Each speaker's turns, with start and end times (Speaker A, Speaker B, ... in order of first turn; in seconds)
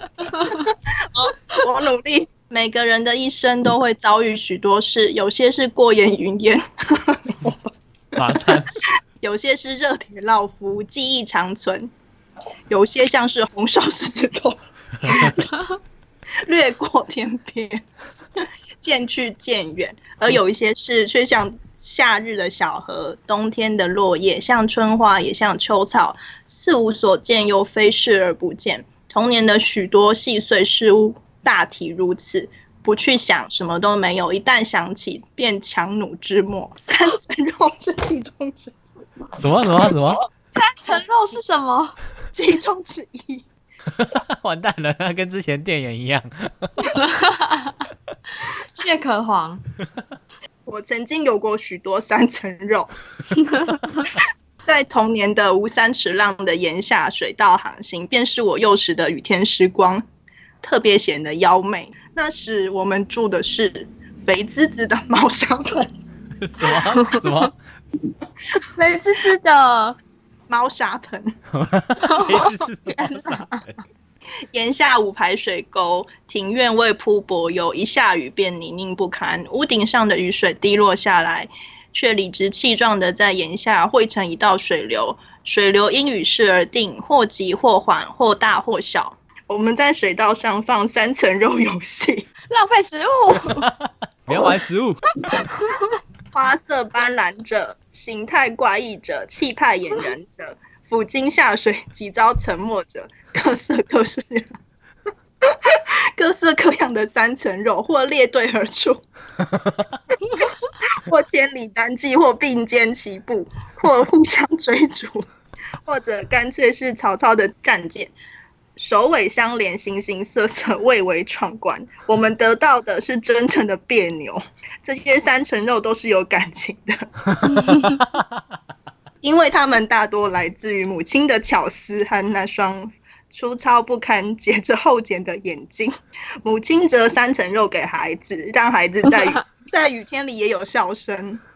Speaker A: 0.3-0.6, 40.5-42.0, 46.9-47.7, 48.5-49.6, 53.5-53.8, 67.0-67.2, 68.8-70.0, 72.0-73.6, 92.5-93.7, 95.3-95.9
Speaker B: 0.5-7.7, 8.2-11.9, 12.7-15.5, 16.4-17.8, 18.4-38.8, 42.3-43.4, 50.7-52.9, 54.1-60.0, 60.6-65.9, 70.5-71.4, 74.5-92.3, 96.3-104.5, 105.4-109.0, 110.8-115.3, 115.9-118.1, 118.8-127.7, 129.2-141.4
Speaker C: 8.2-8.9, 15.0-15.3, 39.4-40.2, 43.9-46.9, 66.4-67.5, 71.5-73.8, 94.3-95.0